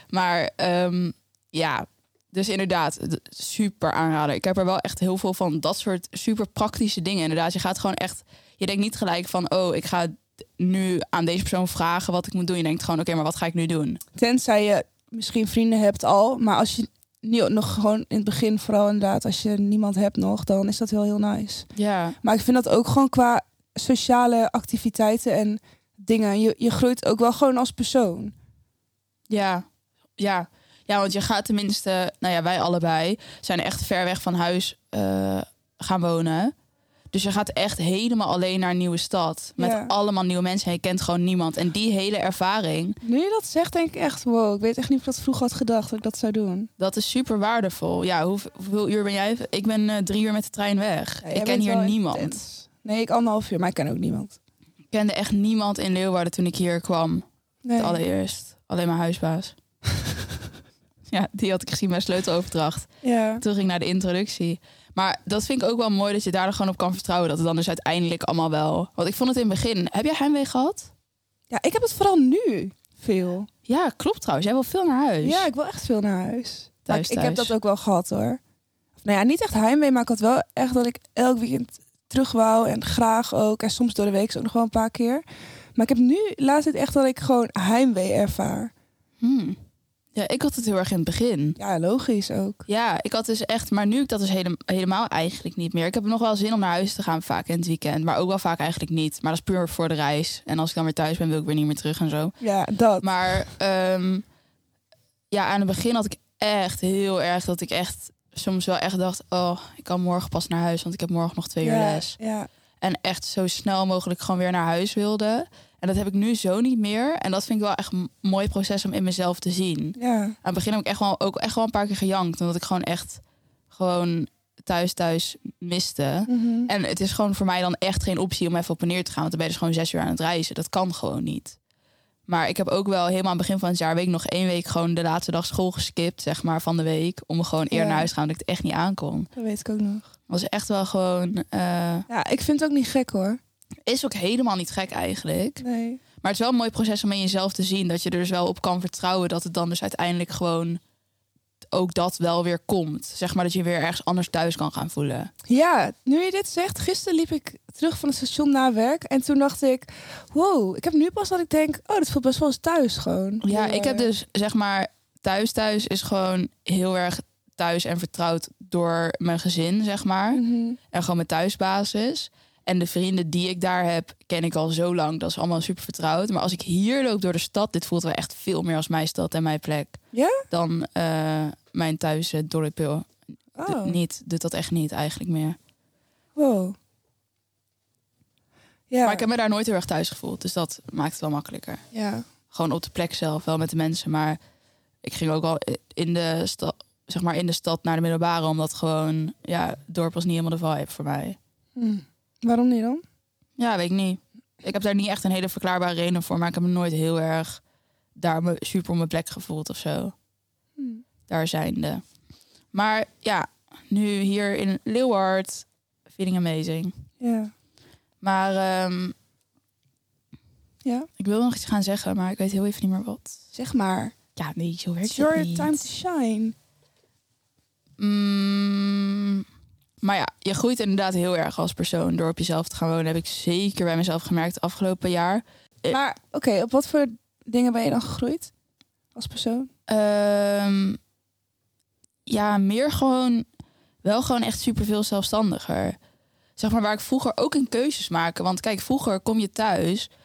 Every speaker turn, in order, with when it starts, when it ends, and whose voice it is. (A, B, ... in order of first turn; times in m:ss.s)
0:00.1-0:14.0 A
0:14.2-0:21.7 B
0:21.8-0:22.2 A
0:22.2-0:28.4 B
0:29.3-0:29.6 A
0:30.2-0:36.5 A
0:37.1-0:43.0 A
0:39.6-0:39.9 B
0:43.0-0:46.7 B
0:46.8-0:52.4 A
0:51.2-0:54.4 B
0:54.9-0:57.2 A
0:57.6-0:58.0 B
0:57.8-0:59.6 A
1:01.1-1:02.9 A
1:03.0-1:03.4 B
1:03.4-1:10.9 A
1:11.5-1:13.5 B
1:13.7-1:15.5 A
1:15.2-1:18.4 B
1:16.9-1:17.5 A
1:19.0-1:25.2 B
1:25.8-1:28.7 B
1:29.2-1:29.6 A
1:30.2-1:31.6 A
1:31.6-1:32.6 B
1:32.7-1:42.3 A
1:42.4-1:43.1 B
1:43.0-1:44.2 A
1:45.3-1:52.2 A
1:51.6-1:52.5 B
1:52.8-2:11.6 A
2:00.0-2:00.4 B
2:06.3-2:06.7 B
2:12.3-2:19.3 A
2:17.7-2:18.1 B
2:19.4-2:20.1 B
2:20.3-2:22.1 A
2:22.1-2:23.4 B
2:23.9-2:25.6 A
2:25.6-2:26.0 B
2:26.2-2:30.8 A
2:31.7-2:35.3 A
2:35.5-2:44.1 B
2:43.4-3:00.0 A
2:50.3-2:50.8 B
3:00.1-3:00.4 B
3:00.5-3:03.1 A
3:03.6-3:04.0 B
3:03.7-3:05.6 A
3:06.4-3:06.8 B
3:08.9-3:09.2 B
3:09.0-3:11.8 A
3:11.9-3:12.2 B
3:12.5-3:14.4 A
3:15.0-3:21.4 A
3:21.8-3:23.0 B
3:23.6-3:27.6 A
3:28.2-3:30.1 A
3:30.8-3:31.0 B
3:31.3-3:32.0 A
3:32.7-3:36.9 A
3:37.2-3:37.5 B
3:38.2-3:39.2 A
3:41.2-3:43.4 A
3:43.5-3:44.1 B
3:44.4-3:45.9 A
3:45.1-3:46.6 B
3:48.0-3:49.5 A
3:50.0-3:56.0 A
3:55.9-3:58.5 B
3:59.2-3:59.7 B
3:59.9-4:01.0 A
4:02.3-4:03.5 A
4:04.0-4:06.0 A
4:06.6-4:10.1 A